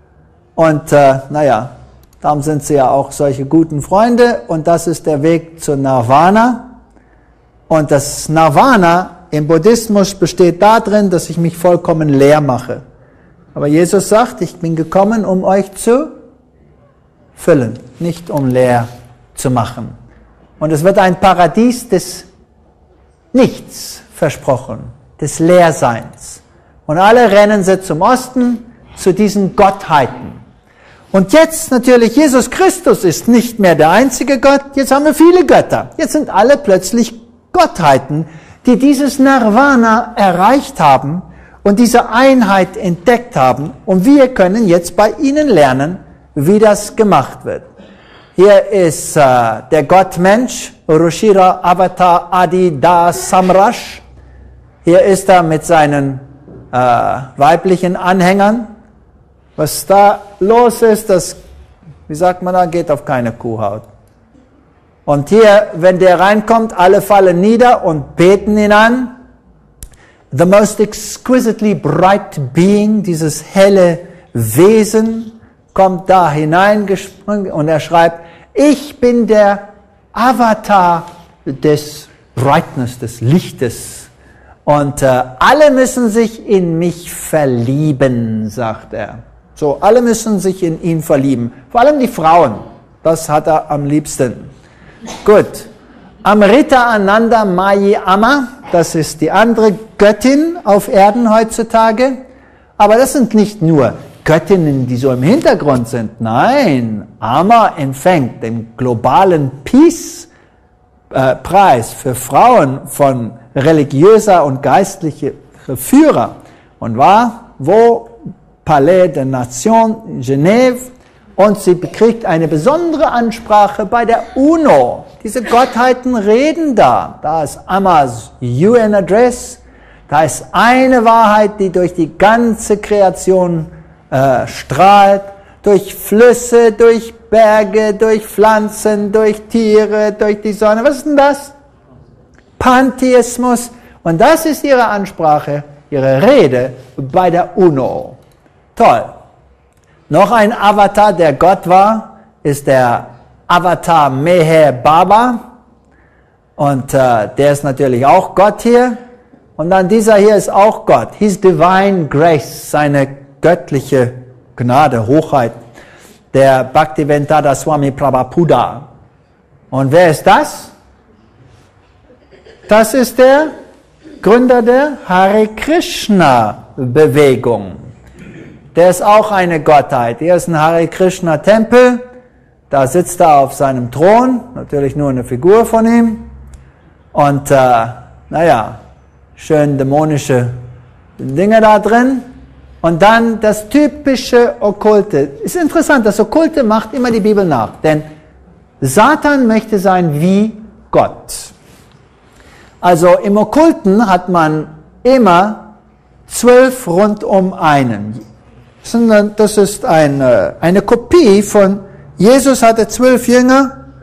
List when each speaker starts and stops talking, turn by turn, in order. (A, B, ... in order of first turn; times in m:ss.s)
0:00.6-0:06.7 A
0:07.7-0:12.8 A
0:13.6-0:16.2 A
0:17.4-0:20.0 A
0:20.6-0:22.3 A
0:23.3-0:30.4 A
0:31.1-0:47.7 A
0:48.4-0:54.0 A
0:54.8-0:58.7 A
0:59.6-1:01.4 A
1:02.1-1:03.9 A
1:05.0-1:09.1 A
1:10.3-1:24.1 A
1:24.7-1:34.5 A
1:35.2-1:35.7 A
1:36.2-1:42.2 A
1:42.8-1:50.3 A
1:51.1-2:21.5 A
2:22.6-2:28.2 A
2:28.8-2:29.2 A
2:30.1-2:35.4 A
2:36.6-2:39.0 A
2:39.6-2:45.6 A
2:46.3-2:48.9 A
2:49.7-2:50.7 A
2:52.7-2:53.5 A
2:54.2-2:57.8 A
2:58.7-3:02.0 A
3:02.7-3:06.3 A
3:07.1-3:08.8 A
3:09.4-3:10.6 A
3:11.2-3:12.3 A
3:12.8-3:18.1 A
3:18.8-3:21.5 A
3:22.8-3:25.7 A
3:26.3-3:28.2 A
3:28.8-3:33.8 A